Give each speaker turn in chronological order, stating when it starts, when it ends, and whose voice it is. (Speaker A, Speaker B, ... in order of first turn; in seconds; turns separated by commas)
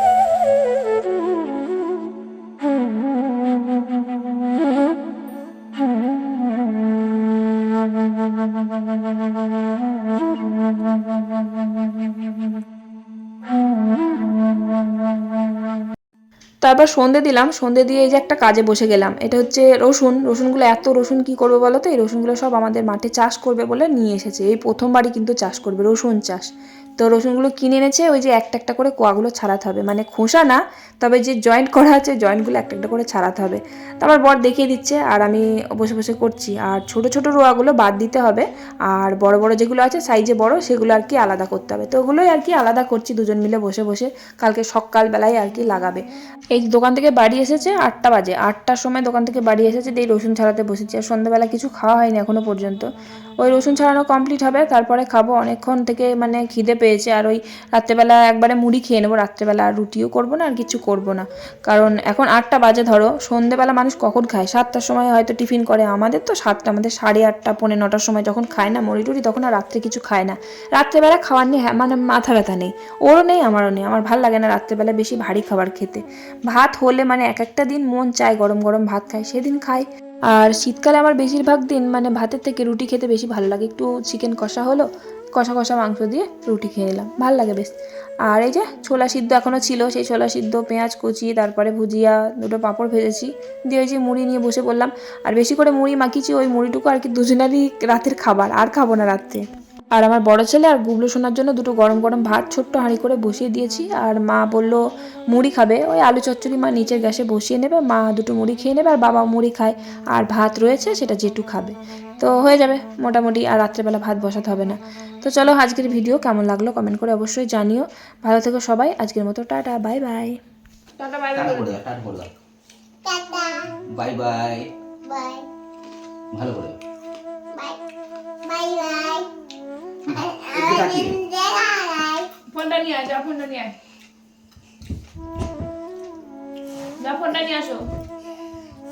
Speaker A: 16.6-52.9, Speaker A: 53.4-87.7, Speaker A: 88.3-104.8, Speaker A: 105.3-120.4, Speaker B: 121.0-121.8, Speaker C: 121.3-122.3, Speaker D: 123.0-123.7, Speaker C: 123.9-124.7, Speaker D: 125.1-125.5, Speaker C: 126.3-126.8, Speaker D: 127.5-127.8, Speaker D: 128.4-129.3, Speaker D: 130.1-132.3, Speaker C: 130.5-131.2, Speaker B: 132.5-133.7, Speaker B: 137.0-137.9